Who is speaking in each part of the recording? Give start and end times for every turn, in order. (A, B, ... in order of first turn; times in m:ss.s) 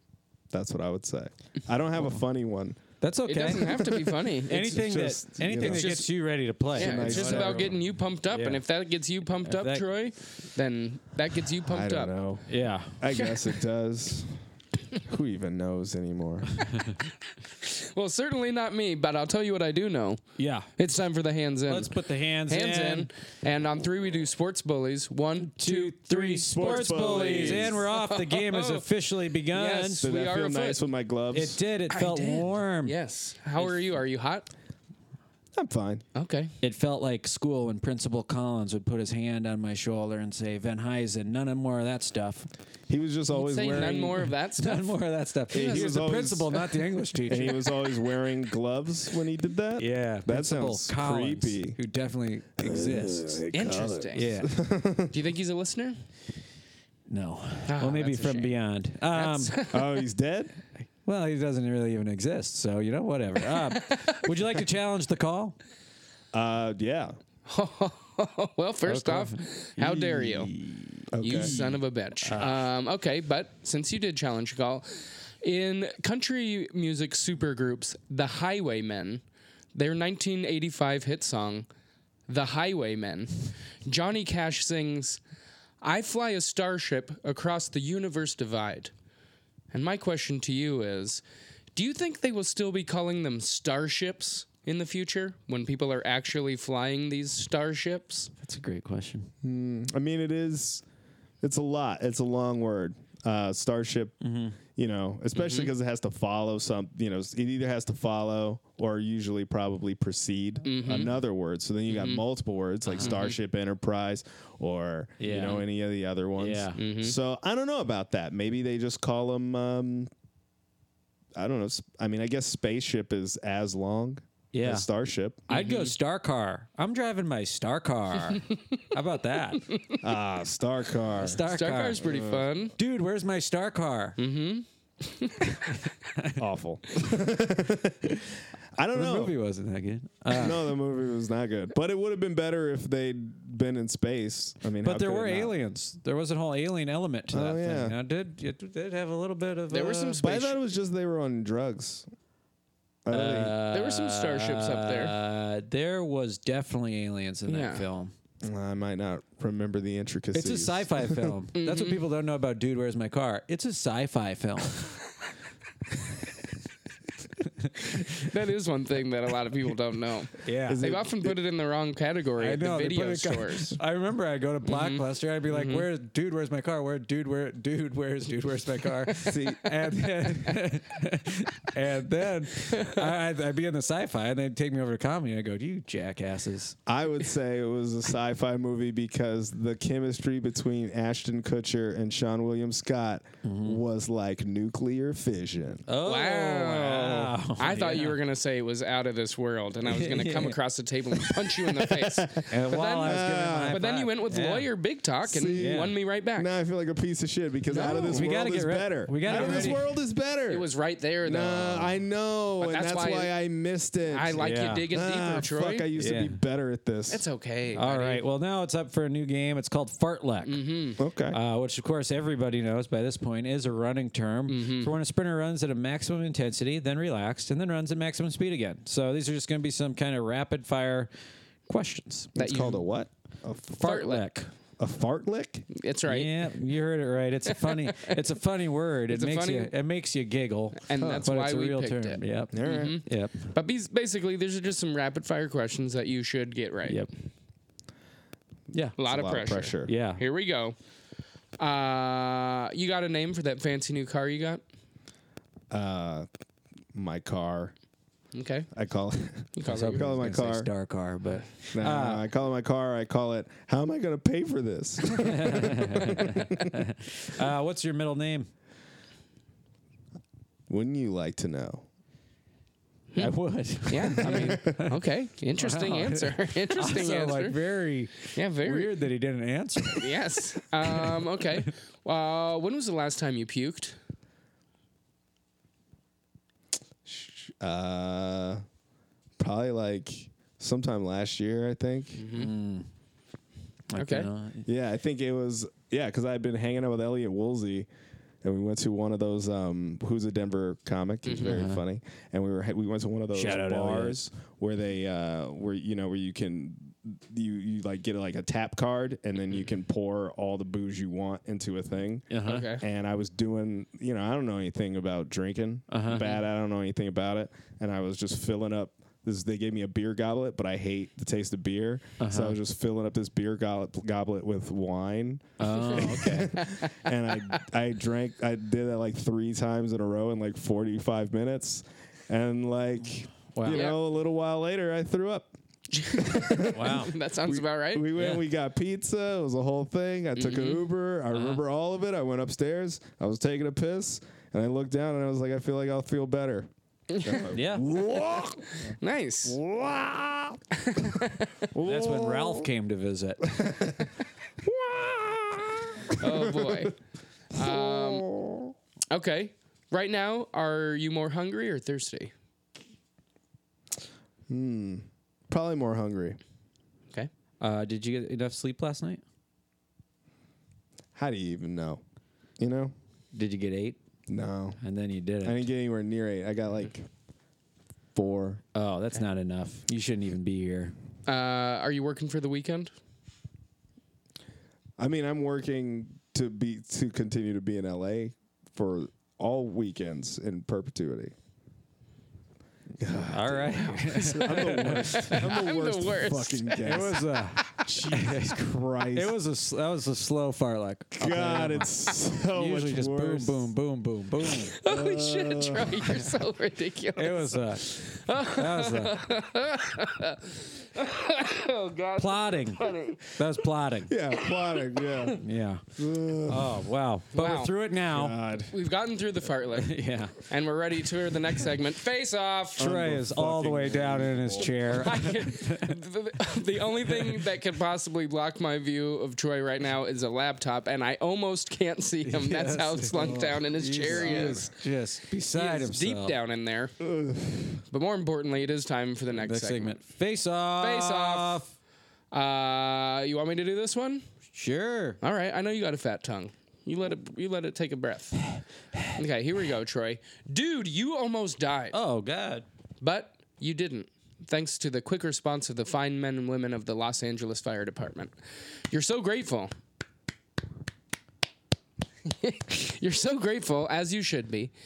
0:00.5-0:02.8 A
0:03.0-0:07.7 B
0:03.3-0:04.9 C
0:04.7-0:06.0 A
0:05.5-0:06.1 C
0:06.8-0:12.1 C
0:06.8-0:07.8 A
0:08.3-0:08.6 B
0:09.4-0:09.8 B
0:11.6-0:14.4 A
0:12.5-0:12.9 B
0:15.0-0:16.5 A
0:17.6-0:20.2 C
0:20.4-0:20.7 B
0:20.8-0:28.8 C
0:21.7-0:23.1 B
0:25.4-0:30.0 B
0:26.5-0:27.8 A
0:29.5-0:30.8 C
0:30.0-0:31.6 A
0:31.3-0:32.9 B
0:31.9-0:34.5 C
0:35.5-0:36.0 A
0:36.1-0:36.5 C
0:36.6-0:42.5 B
0:42.9-0:44.3 A
0:43.3-0:44.9 C
0:44.6-0:47.6 B
0:45.5-0:46.6 A
0:45.5-0:46.1 C
0:47.3-0:51.8 A
0:49.8-0:53.4 B
0:52.6-0:55.1 A
0:53.5-0:54.3 C
0:54.1-0:54.5 B
0:55.1-0:56.0 C
0:57.1-0:59.6 B
0:57.7-0:58.5 C
0:59.1-1:00.0 C
0:59.7-1:00.6 A
1:01.0-1:05.6 B
1:03.4-1:04.6 C
1:06.3-1:07.1 A
1:07.5-1:10.5 C
1:08.8-1:12.6 B
1:11.1-1:11.5 A
1:11.2-1:19.2 C
1:19.7-1:21.7 C
1:22.3-1:25.2 C
1:25.8-1:28.9 C
1:29.7-1:31.2 C
1:31.7-1:38.3 C
1:38.4-1:39.3 B
1:39.4-1:40.8 A
1:41.4-1:44.2 A
1:44.2-1:44.6 B
1:44.7-2:00.1 A
1:45.3-1:45.7 C
1:50.6-1:51.2 C
1:51.9-1:52.2 C
1:52.9-1:53.4 C
1:55.2-1:55.6 B
1:56.4-1:56.8 B
1:56.8-1:57.2 C
2:01.3-2:05.5 A
2:04.5-2:04.9 B
2:05.5-2:09.8 B
2:05.5-2:05.9 C
2:10.0-2:11.4 A
2:11.2-2:12.0 B
2:11.5-2:12.7 C
2:12.0-2:12.5 A
2:12.8-2:14.2 B
2:14.2-2:15.7 C
2:16.0-2:16.4 B
2:16.4-2:19.3 A
2:18.9-2:20.7 B
2:20.3-2:25.5 A
2:24.8-2:30.2 B
2:27.3-2:27.9 A
2:29.7-2:30.6 C
2:30.1-2:32.1 A
2:33.0-2:33.5 A
2:33.1-2:38.1 B
2:33.7-2:35.1 C
2:37.5-2:37.9 C
2:38.4-2:41.3 A
2:40.3-2:44.9 B
2:41.5-2:42.0 C
2:47.9-2:53.8 C
2:50.4-2:50.8 B
2:50.6-2:51.4 A
2:52.4-3:06.8 B
2:54.6-2:55.9 C
2:59.2-2:59.7 A
3:02.7-3:03.0 C
3:06.9-3:15.9 A
3:13.4-3:13.8 B
3:15.9-3:18.2 B
3:16.0-3:26.5 C
3:19.8-3:20.6 B
3:21.9-3:23.8 A
3:22.5-3:24.7 B
3:25.3-3:30.7 A
3:25.6-3:26.0 B
3:27.7-3:28.3 C
3:28.0-3:29.8 B
3:29.2-3:29.8 C
3:30.5-3:32.0 C
3:31.2-3:37.2 A
3:32.6-3:33.3 C
3:34.1-3:35.9 C
3:34.4-3:34.9 B
3:36.0-3:36.4 B
3:37.1-3:38.2 C
3:37.8-3:40.6 B
3:40.4-3:41.0 C
3:41.0-3:41.4 A
3:41.3-3:51.1 B
3:44.5-3:44.9 C
3:51.7-3:52.4 B
3:52.3-3:54.0 A
3:52.4-3:52.8 C
3:53.8-3:54.5 B
3:53.8-3:54.3 C
3:54.8-3:55.6 A
3:55.7-3:56.4 C
3:56.1-4:03.4 B
3:57.5-3:58.2 C
3:59.1-3:59.7 C
4:00.8-4:07.0 C
4:01.0-4:01.2 A
4:02.5-4:03.0 A
4:08.9-4:09.9 A
4:09.0-4:10.8 C
4:09.8-4:10.2 B
4:11.6-4:14.6 C
4:15.7-4:16.3 A
4:16.9-4:17.7 A
4:18.3-4:18.7 C
4:18.7-4:20.7 A
4:19.5-4:20.2 C
4:19.6-4:22.2 B
4:21.7-4:26.8 A
4:25.2-4:28.5 B
4:30.7-4:31.8 A
4:33.2-4:35.0 B
4:33.9-4:37.6 C
4:34.2-4:34.8 A
4:35.6-4:40.1 B
4:38.3-4:39.0 C
4:39.9-4:44.0 C
4:40.9-4:41.4 B
4:47.0-4:48.6 A
4:49.4-4:52.3 A
4:52.2-4:52.5 C
4:52.3-4:52.9 B
4:53.9-4:54.6 B
4:53.9-4:54.3 C
4:54.6-4:57.9 A
4:58.4-5:35.5 A
5:01.2-5:01.6 C
5:01.4-5:01.8 B
5:03.3-5:04.2 B
5:12.3-5:12.7 B
5:12.4-5:12.8 C
5:15.9-5:16.3 B
5:22.2-5:22.6 B
5:25.6-5:26.5 B
5:25.7-5:26.9 C
5:33.5-5:33.9 B
5:33.7-5:34.0 C
5:35.9-5:38.1 C
5:36.2-5:46.7 A
5:36.7-5:37.1 B
5:38.2-5:38.4 B
5:40.4-5:40.8 C
5:41.3-5:41.6 B
5:47.1-5:47.5 C
5:47.2-5:48.9 A
5:47.5-5:47.8 B
5:49.0-5:49.6 C
5:49.4-5:50.6 A
5:50.8-5:51.6 C
5:51.7-5:52.7 A
5:51.8-5:53.7 B
5:53.5-5:54.0 A
5:54.6-5:56.9 A
5:56.2-5:56.9 C
5:57.5-5:58.3 C
5:57.6-5:58.7 A
5:59.1-6:02.3 C
6:04.5-6:06.4 A
6:07.6-6:09.2 B
6:11.1-6:12.0 A
6:12.6-6:12.9 A
6:13.3-6:14.0 B
6:14.3-6:14.8 A
6:14.8-6:15.7 B
6:15.4-6:17.0 A
6:18.1-6:18.6 A
6:18.7-6:20.9 B
6:21.2-6:22.9 C
6:25.0-6:31.3 A
6:33.0-6:39.4 A
6:33.3-6:35.4 B
6:34.0-6:36.9 C
6:36.8-6:41.9 B
6:41.2-6:43.7 A
6:42.5-6:44.8 B
6:44.5-6:53.2 C
6:44.8-6:46.2 A
6:47.2-6:49.2 B
6:52.2-6:54.1 B
6:54.1-6:55.4 A
6:55.4-6:55.8 B
6:56.0-6:56.8 A
6:56.4-6:58.4 B
6:57.3-6:57.7 C
6:58.1-6:58.7 A
6:58.7-6:59.9 C
6:59.8-7:00.3 B
7:00.5-7:02.8 C
7:02.8-7:05.1 A
7:02.8-7:06.0 B
7:04.9-7:14.7 C
7:07.2-7:07.4 B
7:12.2-7:16.4 B
7:14.0-7:14.6 A
7:15.5-7:16.9 C
7:17.0-7:17.8 A
7:17.9-7:20.0 C
7:19.4-7:21.7 B
7:20.8-7:21.6 C
7:22.3-7:24.2 C
7:24.5-7:25.2 B
7:25.2-7:28.4 C
7:29.1-7:32.0 C
7:31.9-7:32.6 B
7:33.0-7:38.3 C
7:38.9-7:39.7 C
7:42.2-7:44.7 C